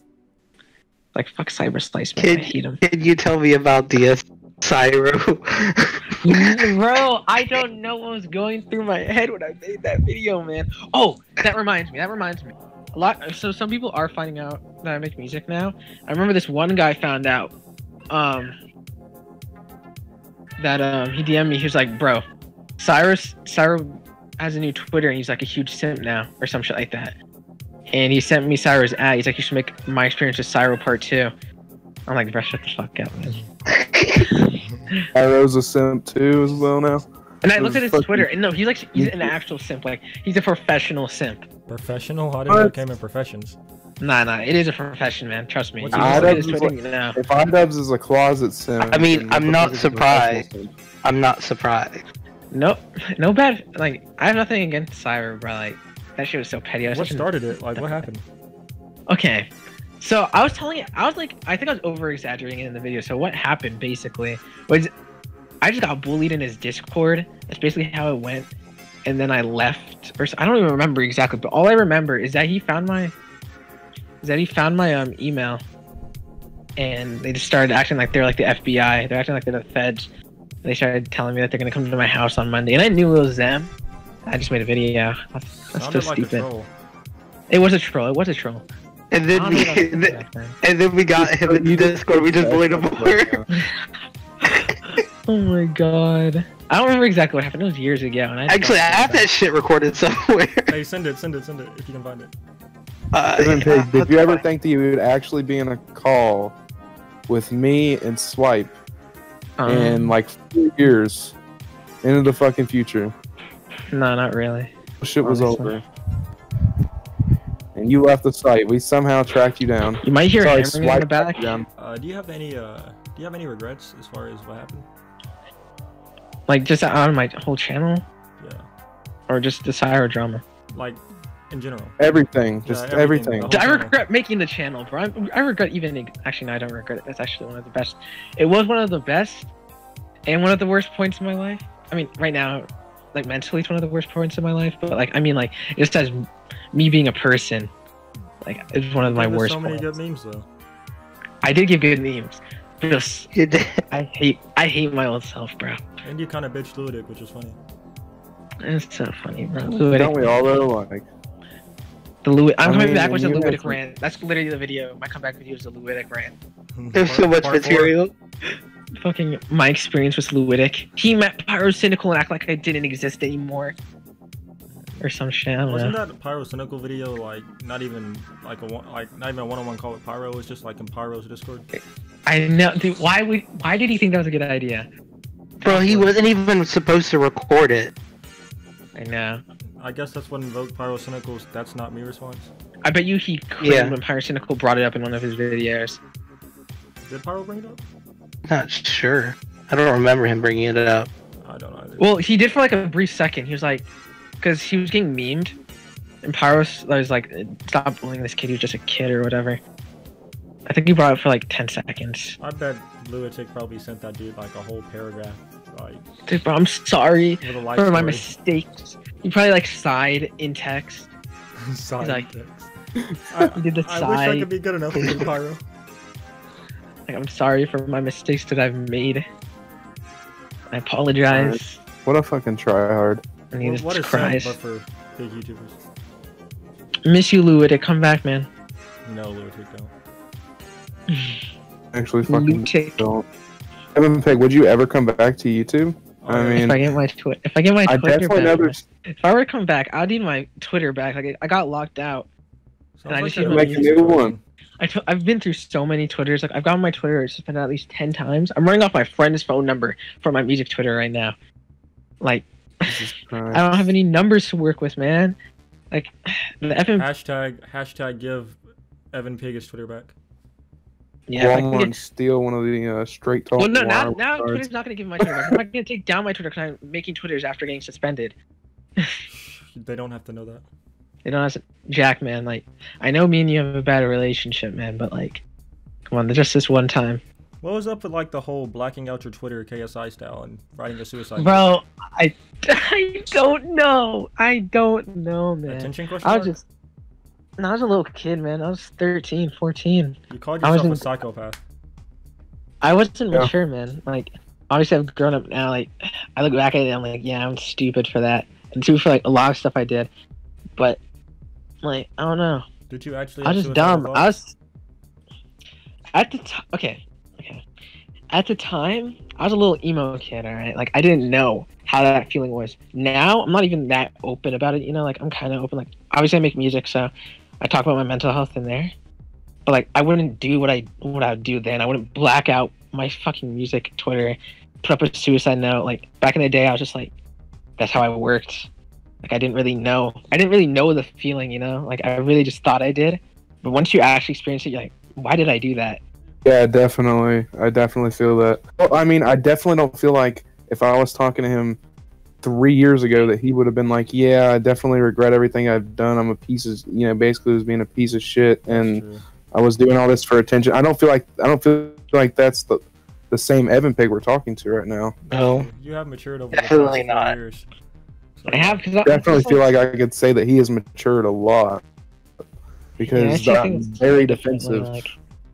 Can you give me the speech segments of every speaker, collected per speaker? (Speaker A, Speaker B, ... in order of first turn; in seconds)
Speaker A: 1.1-2.8, 6.2-17.5, 18.1-18.5, 20.6-22.2, 22.8-27.1, 27.9-31.3, 32.1-33.4, 37.4-41.4, 44.0-47.2, 52.5-58.1, 59.1-59.5, 60.0-64.9, 65.6-68.5, 69.0-73.1, 74.2-75.6, 76.8-80.1, 80.6-83.7, 84.3-86.5, 87.5-88.6, 89.3-90.5, 95.2-99.2, 109.6-110.2, 113.9-114.7, 115.2-115.8, 120.0-121.5, 126.5-128.0, 129.3-130.4, 133.5-139.5, 140.3-146.2, 146.7-147.7, 148.4-149.9, 151.4-153.3, 153.9-155.8, 158.6-160.5, 162.2-166.3, 169.0-173.7, 175.0-176.0, 182.2-184.9, 185.6-186.1, 188.9-189.4, 192.8-196.0, 202.0-203.9, 204.4-205.6, 206.2-209.6, 210.7-212.3, 216.3-221.1, 222.0-222.3, 223.6-224.5, 227.1-229.2, 230.7-231.8, 233.5-234.6, 237.1-238.5, 241.1-241.4, 242.3-243.1, 246.6-252.3, 253.1-253.9, 254.8-261.3, 262.2-262.4, 263.5-265.4, 265.9-267.1, 271.3-272.0, 273.6-278.4, 281.2-285.4, 286.1-287.2, 291.4-296.6, 297.6-301.1, 302.8-310.1, 311.8-312.6, 313.4-314.6, 316.1-317.6, 318.3-327.1, 327.6-328.9, 329.6-337.1, 337.8-338.7, 339.2-346.0, 368.5-369.7, 373.1-375.1
Speaker B: 2.2-6.7, 33.7-34.2, 48.8-50.5, 51.0-52.0, 89.1-93.4, 98.5-100.6, 103.1-104.4, 153.3-153.8, 166.9-168.1, 185.6-187.9, 193.6-193.9, 198.5-201.1, 365.3-365.7, 366.5-367.3
Speaker C: 35.1-38.3, 38.9-39.3, 42.5-42.7, 45.9-50.7, 91.1-93.4, 103.3-106.5, 107.3-108.7, 109.6-111.3, 112.0-113.1, 115.0-115.8, 117.7-121.7, 132.0-133.6, 159.6-161.0, 162.6-163.8, 231.3-233.2, 241.9-243.2, 243.9-246.8, 247.8-248.8, 253.4-254.3, 262.9-263.9, 271.4-274.7, 275.2-275.5, 346.4-351.8, 352.4-362.8, 363.3-365.1, 369.1-371.8, 373.0-375.0
Speaker D: 41.7-43.6, 45.8-46.6, 56.9-58.2, 85.5-86.7, 100.7-102.3, 121.8-124.9, 128.4-128.6, 130.7-132.0, 132.6-134.0, 149.0-150.5, 156.0-157.6, 166.7-167.9, 174.7-175.1, 175.6-181.7, 189.8-192.5, 197.1-197.8, 201.4-202.2, 212.4-216.1, 217.4-218.3, 221.7-222.7, 223.3-225.6, 233.6-235.8, 239.0-239.9, 246.2-246.8, 253.0-254.4, 267.0-268.6, 269.1-270.1, 279.3-280.6, 287.6-291.7, 295.7-296.6, 300.3-301.6, 312.9-314.3, 358.7-359.2, 365.2-367.7, 368.4-368.8